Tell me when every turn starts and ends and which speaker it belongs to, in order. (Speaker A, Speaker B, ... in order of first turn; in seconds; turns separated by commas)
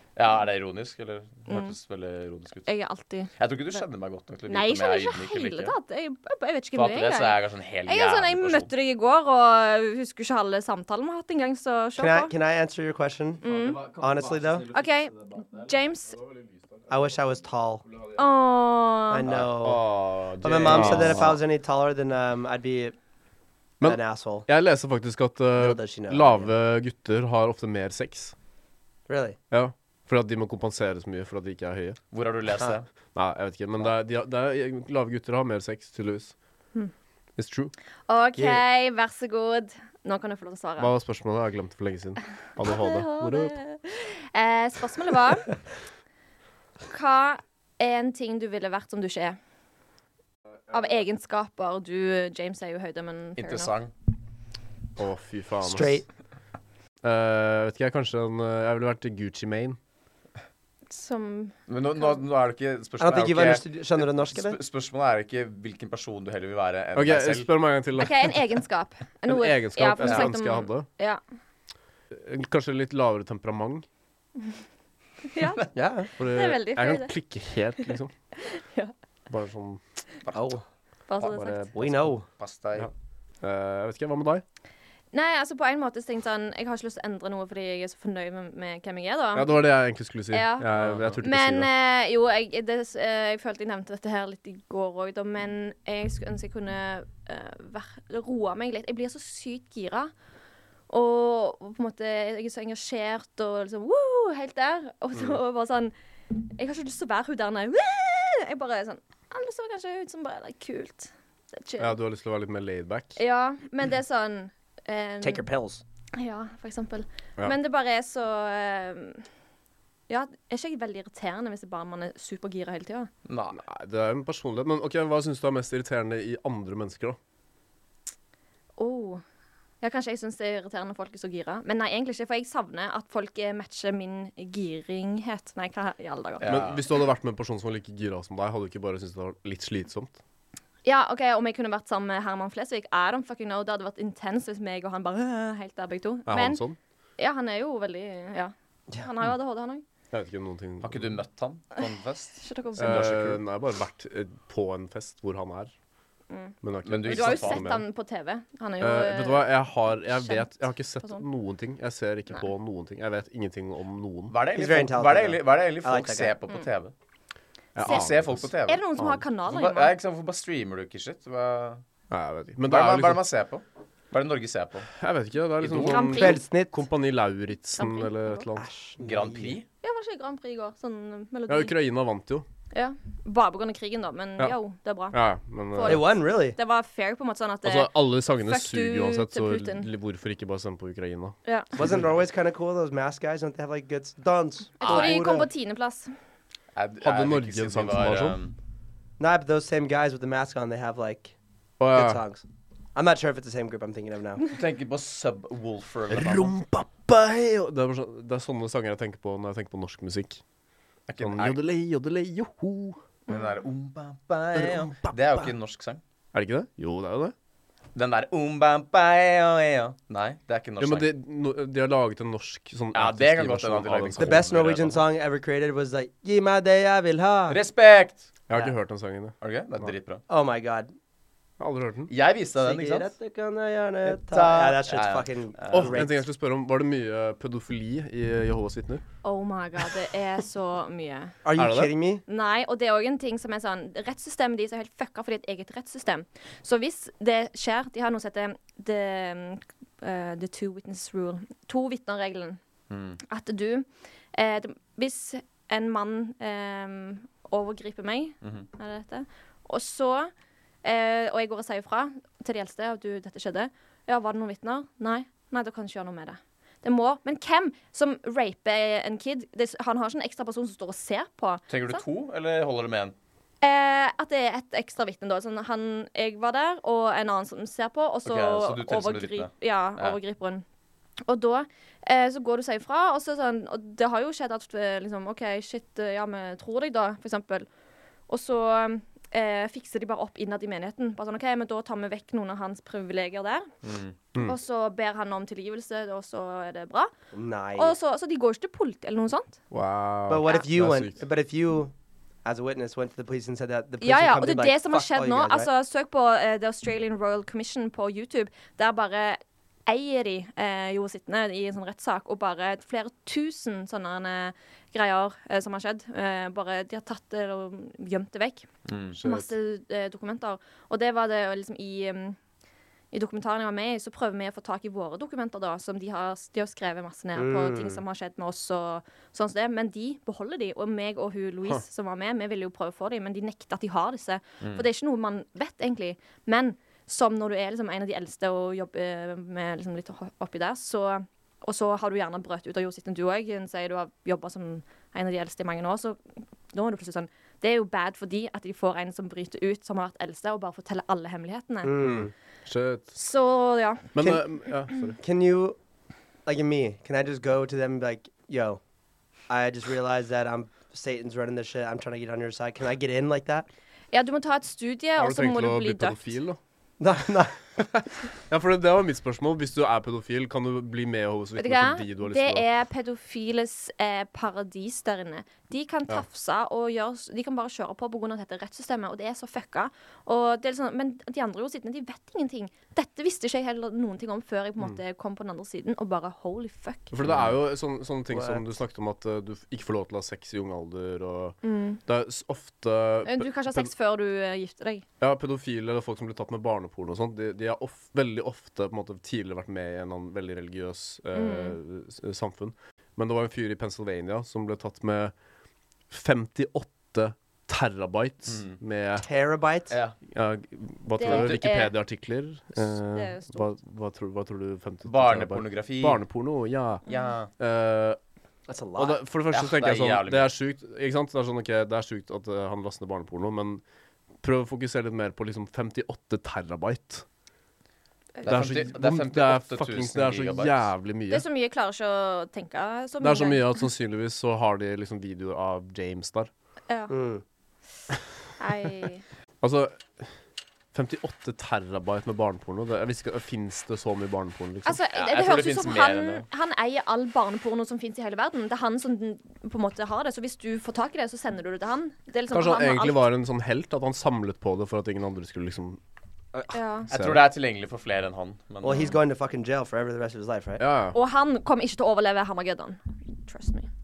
Speaker A: 0.1-2.7, Speaker B: 1.5-1.7, Speaker B: 2.6-3.3, Speaker A: 3.4-5.7, Speaker B: 4.5-12.3, Speaker A: 6.7-8.7, Speaker C: 12.0-14.7, Speaker B: 13.4-13.8, Speaker A: 14.2-14.6, Speaker B: 14.7-16.2, Speaker D: 16.1-16.9, Speaker C: 16.9-17.8, Speaker B: 18.2-19.3, Speaker C: 19.1-22.9, Speaker D: 19.4-21.4, Speaker A: 20.6-21.3, Speaker D: 23.8-28.3, Speaker C: 23.8-24.5, Speaker C: 25.6-26.5, Speaker C: 29.1-29.4, Speaker D: 29.5-32.0, Speaker A: 32.1-32.9, Speaker D: 33.1-36.3, Speaker D: 37.4-37.7, Speaker B: 38.1-40.9, Speaker C: 38.4-38.6, Speaker D: 40.8-43.6, Speaker B: 42.6-45.5, Speaker B: 46.9-49.4, Speaker B: 50.7-53.7, Speaker A: 53.4-53.9, Speaker D: 55.0-56.0, Speaker C: 55.6-56.0, Speaker D: 57.0-59.8, Speaker B: 60.9-62.2, Speaker A: 61.7-67.5, Speaker C: 63.0-64.6, Speaker D: 66.9-68.4, Speaker B: 68.0-71.2, Speaker D: 69.3-70.9, Speaker A: 70.0-70.3, Speaker D: 72.1-73.8, Speaker B: 75.2-77.1, Speaker C: 75.7-76.1, Speaker D: 76.2-78.1, Speaker B: 78.4-78.9, Speaker D: 79.3-79.8, Speaker A: 80.2-80.5, Speaker C: 80.3-80.6, Speaker B: 81.1-81.7, Speaker D: 81.2-82.1, Speaker C: 81.8-82.3, Speaker A: 81.8-82.9, Speaker D: 82.8-84.4, Speaker B: 85.1-89.6, Speaker D: 89.3-91.7, Speaker B: 90.3-100.1, Speaker A: 90.7-91.2, Speaker B: 100.9-105.9, Speaker B: 106.6-112.0, Speaker D: 111.8-113.2, Speaker B: 113.2-115.4, Speaker C: 115.2-115.8, Speaker B: 116.1-119.2, Speaker B: 120.1-123.1, Speaker A: 123.2-123.6, Speaker D: 123.5-127.2, Speaker B: 128.8-129.2, Speaker B: 129.8-136.8, Speaker A: 136.4-136.8, Speaker D: 136.4-140.2, Speaker B: 140.8-146.6, Speaker D: 146.3-146.8, Speaker B: 147.2-149.8, Speaker D: 150.1-151.2, Speaker A: 150.8-153.4, Speaker B: 152.4-153.1, Speaker D: 152.8-155.7, Speaker B: 156.3-161.2, Speaker D: 156.6-157.8, Speaker A: 156.8-157.7, Speaker D: 158.8-164.3, Speaker A: 164.3-166.9, Speaker C: 164.5-166.4, Speaker D: 167.7-169.2, Speaker A: 167.8-168.8, Speaker B: 168.7-169.9, Speaker A: 169.5-171.8, Speaker D: 172.1-173.2, Speaker A: 172.6-174.9, Speaker D: 174.9-178.7, Speaker A: 175.6-176.2, Speaker B: 175.8-176.4, Speaker C: 176.1-176.7, Speaker B: 177.8-178.5, Speaker C: 178.6-179.6, Speaker A: 179.0-179.7, Speaker B: 179.8-181.7, Speaker D: 181.5-182.4, Speaker B: 182.7-185.2, Speaker D: 185.1-186.1, Speaker B: 185.7-189.9, Speaker C: 185.8-186.6, Speaker D: 187.6-192.1, Speaker B: 191.4-191.7, Speaker C: 191.8-195.5, Speaker B: 194.8-196.1, Speaker A: 194.8-195.2, Speaker A: 196.7-198.5, Speaker D: 197.0-198.4, Speaker C: 199.2-201.3, Speaker D: 201.8-202.2, Speaker C: 201.9-202.4, Speaker C: 202.9-204.5, Speaker A: 204.5-206.5, Speaker D: 206.1-210.4, Speaker A: 211.1-211.6, Speaker D: 211.2-213.0, Speaker B: 213.3-213.6, Speaker A: 213.3-216.0, Speaker D: 214.5-215.5, Speaker D: 216.3-217.3, Speaker A: 217.9-221.1, Speaker D: 220.8-224.4, Speaker A: 222.9-225.0, Speaker C: 224.2-227.6, Speaker A: 227.5-228.3, Speaker D: 228.5-229.3, Speaker A: 229.4-230.2, Speaker C: 230.3-230.9, Speaker D: 231.6-232.1, Speaker A: 232.1-233.1, Speaker C: 232.6-236.2, Speaker A: 234.0-236.0, Speaker D: 235.7-239.0, Speaker B: 239.2-241.3, Speaker C: 241.4-242.2, Speaker D: 241.5-241.9, Speaker B: 242.3-252.6, Speaker A: 252.9-253.2, Speaker B: 253.2-260.3, Speaker A: 258.4-258.7, Speaker B: 260.8-272.0, Speaker A: 271.7-273.1, Speaker B: 273.6-280.6, Speaker A: 278.2-280.2, Speaker B: 281.2-287.7, Speaker B: 288.3-293.7, Speaker A: 293.8-294.1, Speaker B: 294.4-297.1, Speaker C: 297.3-297.9, Speaker B: 297.7-299.6, Speaker D: 299.7-301.2, Speaker C: 300.3-301.9, Speaker C: 302.4-305.7, Speaker B: 304.0-318.7, Speaker A: 318.9-319.2, Speaker D: 319.2-319.5, Speaker B: 319.2-322.4, Speaker B: 323.1-346.2, Speaker C: 327.3-328.0, Speaker B: 346.7-352.0, Speaker C: 351.8-352.3, Speaker D: 352.0-353.1, Speaker B: 353.1-354.1, Speaker D: 354.1-355.2, Speaker C: 354.2-354.4, Speaker C: 355.2-355.8, Speaker C: 356.4-358.8, Speaker C: 359.5-363.7, Speaker B: 364.1-366.3, Speaker D: 365.2-366.6, Speaker C: 367.0-367.7, Speaker D: 367.8-372.7, Speaker B: 371.6-387.1, Speaker D: 387.1-393.9, Speaker A: 387.2-387.5, Speaker C: 388.3-388.6, Speaker B: 391.6-392.0, Speaker B: 393.2-395.0, Speaker D: 395.2-405.3, Speaker B: 401.3-401.8, Speaker D: 406.1-409.3, Speaker A: 408.5-408.8, Speaker C: 409.2-410.0, Speaker A: 409.9-410.1, Speaker D: 410.3-417.0, Speaker B: 411.1-411.9, Speaker A: 411.3-411.6, Speaker B: 413.0-413.7, Speaker A: 415.1-416.2, Speaker B: 417.1-417.3, Speaker A: 417.1-417.5, Speaker D: 417.6-418.2, Speaker C: 418.7-419.2, Speaker D: 419.0-423.8, Speaker A: 419.5-420.5, Speaker D: 424.4-427.2, Speaker B: 428.4-428.7, Speaker A: 428.4-430.8, Speaker D: 428.4-431.4, Speaker B: 431.3-433.8, Speaker D: 433.2-436.5, Speaker B: 436.9-437.1, Speaker C: 437.1-437.4, Speaker B: 438.6-439.2, Speaker D: 439.6-440.3, Speaker D: 440.9-445.0, Speaker B: 444.8-453.3, Speaker A: 445.1-446.4, Speaker D: 452.5-456.0, Speaker B: 456.7-457.1, Speaker A: 457.1-459.2, Speaker D: 457.1-457.4, Speaker C: 458.8-460.8, Speaker B: 458.8-459.2, Speaker D: 460.8-461.1, Speaker B: 461.1-463.9